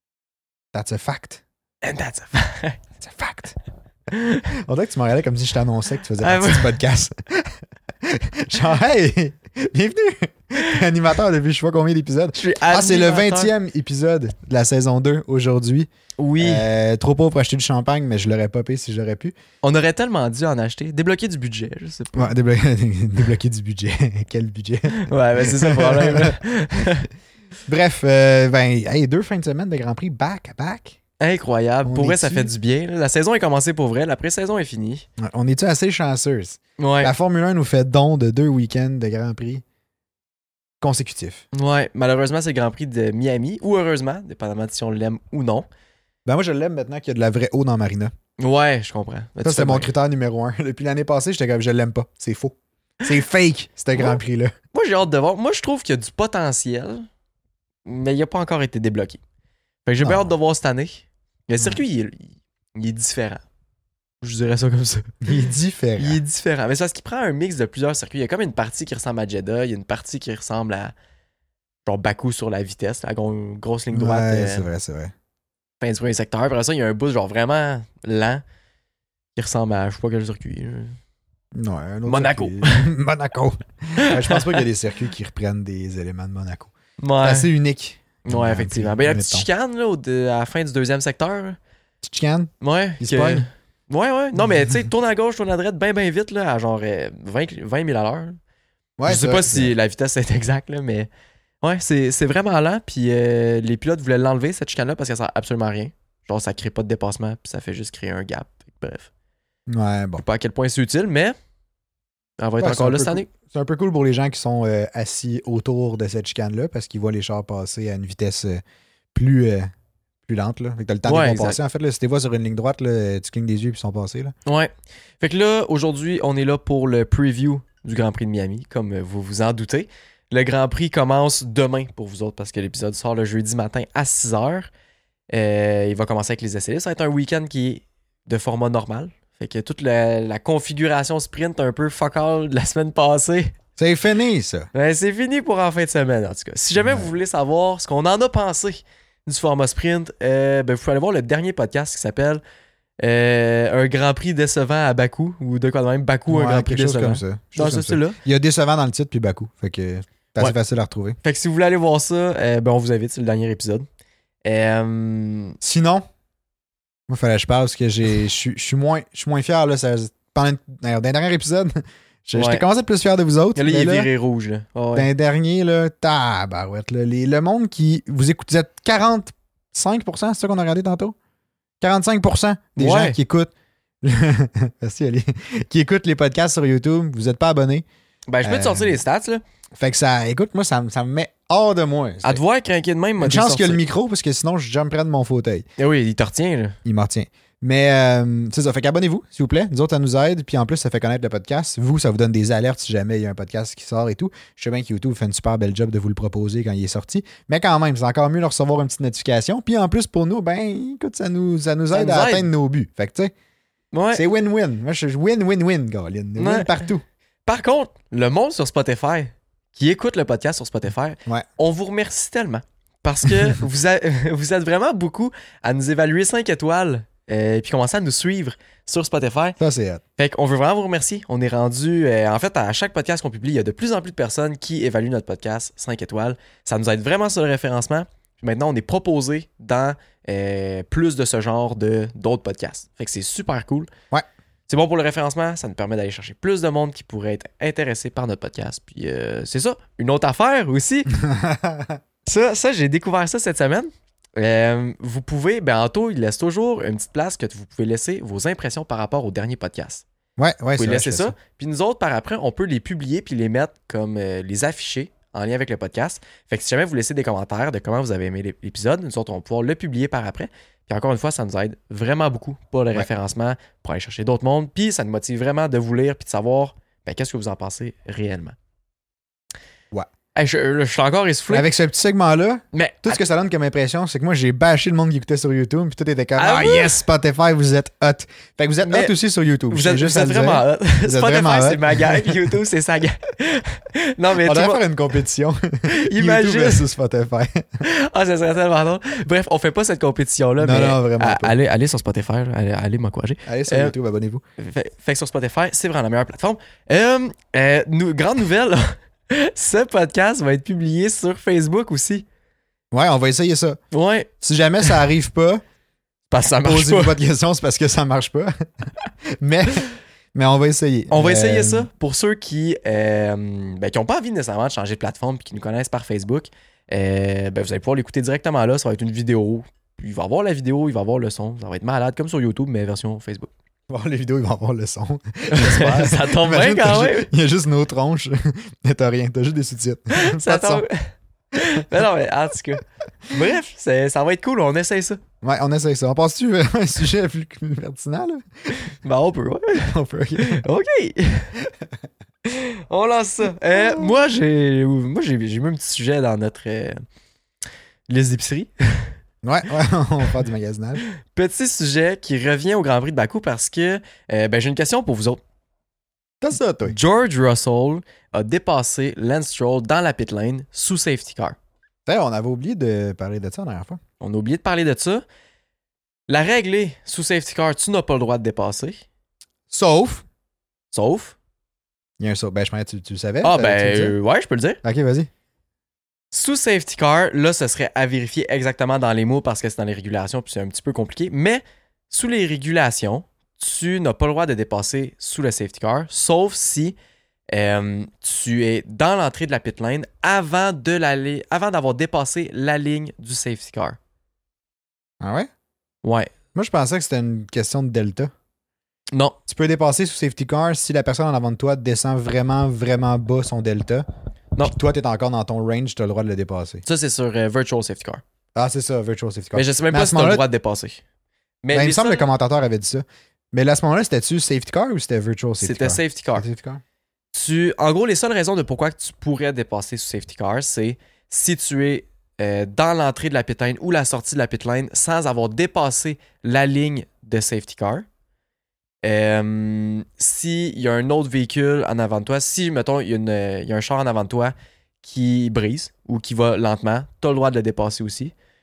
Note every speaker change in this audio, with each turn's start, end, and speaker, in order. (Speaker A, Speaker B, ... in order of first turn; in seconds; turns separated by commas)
Speaker A: 0.7-1.4, Speaker B: 1.8-2.8, Speaker A: 3.0-3.5, Speaker B: 4.1-4.4, Speaker A: 4.6-15.9, Speaker B: 6.2-6.8, Speaker B: 12.3-13.5, Speaker B: 16.2-16.6, Speaker A: 16.4-19.3, Speaker B: 19.6-22.3, Speaker A: 22.1-26.4, Speaker B: 24.9-27.1, Speaker A: 27.6-31.0, Speaker B: 31.2-35.0, Speaker A: 31.8-32.5, Speaker A: 35.2-39.6, Speaker B: 36.8-37.1, Speaker A: 40.8-41.4, Speaker B: 41.5-45.6, Speaker A: 46.2-48.1, Speaker B: 48.4-49.9, Speaker A: 49.4-54.5, Speaker B: 54.7-57.0, Speaker B: 57.8-59.2, Speaker B: 59.8-63.4, Speaker A: 60.0-60.3, Speaker B: 64.2-65.2, Speaker A: 65.2-66.2, Speaker B: 66.0-70.9, Speaker B: 71.8-74.7, Speaker A: 73.9-75.1, Speaker B: 75.8-78.4, Speaker B: 79.3-81.0, Speaker A: 81.5-89.5, Speaker B: 82.0-82.9, Speaker B: 84.0-84.6, Speaker B: 87.0-87.5, Speaker B: 88.2-91.6, Speaker A: 92.0-93.5, Speaker B: 92.6-98.4, Speaker A: 94.4-94.9, Speaker A: 99.0-99.7, Speaker B: 99.1-101.1, Speaker B: 101.6-109.1, Speaker A: 109.7-110.2, Speaker B: 110.2-111.3, Speaker B: 112.4-113.3, Speaker A: 112.6-118.6, Speaker A: 119.1-119.7, Speaker A: 120.2-124.3, Speaker B: 121.0-121.6, Speaker B: 124.5-134.7, Speaker B: 135.3-143.5, Speaker A: 143.8-144.7, Speaker B: 144.7-152.4, Speaker A: 146.8-147.1, Speaker B: 153.0-158.2, Speaker A: 156.3-161.2, Speaker B: 161.2-163.8, Speaker B: 164.4-165.6, Speaker A: 165.6-166.0, Speaker A: 167.1-174.1, Speaker B: 172.3-172.6, Speaker B: 173.6-175.1, Speaker A: 174.9-181.2, Speaker A: 181.8-187.8, Speaker B: 182.8-183.2, Speaker B: 188.3-189.4, Speaker A: 188.4-189.0, Speaker A: 189.8-192.4, Speaker B: 192.2-193.8, Speaker A: 193.2-195.7, Speaker B: 195.8-196.8, Speaker A: 196.8-213.3, Speaker B: 211.9-212.5, Speaker B: 213.9-214.2, Speaker A: 214.1-217.0, Speaker B: 216.4-216.9, Speaker B: 217.4-229.6, Speaker A: 229.6-230.0, Speaker B: 230.2-243.9, Speaker B: 244.7-251.1, Speaker A: 251.1-252.0, Speaker B: 252.2-260.0, Speaker A: 260.4-261.3, Speaker B: 260.7-278.5, Speaker B: 280.3-281.7, Speaker A: 281.5-292.4, Speaker B: 282.7-283.2, Speaker B: 286.4-287.0, Speaker B: 288.8-289.1, Speaker B: 289.7-294.8, Speaker A: 294.4-297.8, Speaker B: 295.9-296.9, Speaker B: 297.8-303.9, Speaker A: 300.6-301.5, Speaker A: 303.4-304.4, Speaker B: 304.6-312.2, Speaker A: 312.9-313.8, Speaker B: 313.9-314.3, Speaker A: 314.4-315.6, Speaker B: 316.3-317.2, Speaker A: 316.6-321.9, Speaker B: 321.1-333.5, Speaker A: 333.9-340.8, Speaker B: 335.5-337.3, Speaker B: 340.1-345.2, Speaker A: 345.4-348.7, Speaker B: 348.7-351.6, Speaker A: 349.8-350.6, Speaker B: 352.4-357.0, Speaker B: 358.1-359.1, Speaker A: 359.4-361.0, Speaker B: 361.0-365.4, Speaker A: 366.4-367.0, Speaker B: 366.8-371.6, Speaker A: 372.1-374.0, Speaker B: 374.2-375.2, Speaker B: 376.3-379.0, Speaker A: 379.7-380.2, Speaker B: 380.9-381.3, Speaker A: 382.2-384.1, Speaker B: 383.4-384.8, Speaker A: 384.8-385.3, Speaker B: 386.3-396.9, Speaker B: 397.5-404.0, Speaker A: 405.2-405.5, Speaker B: 406.0-406.3, Speaker A: 406.5-408.3, Speaker B: 409.1-409.4, Speaker A: 409.5-414.1, Speaker A: 414.6-416.8, Speaker B: 416.9-418.2, Speaker A: 418.5-420.4, Speaker B: 419.5-421.0, Speaker B: 421.6-422.3, Speaker A: 421.7-426.8, Speaker B: 425.6-426.4, Speaker B: 427.3-438.0, Speaker B: 439.0-448.3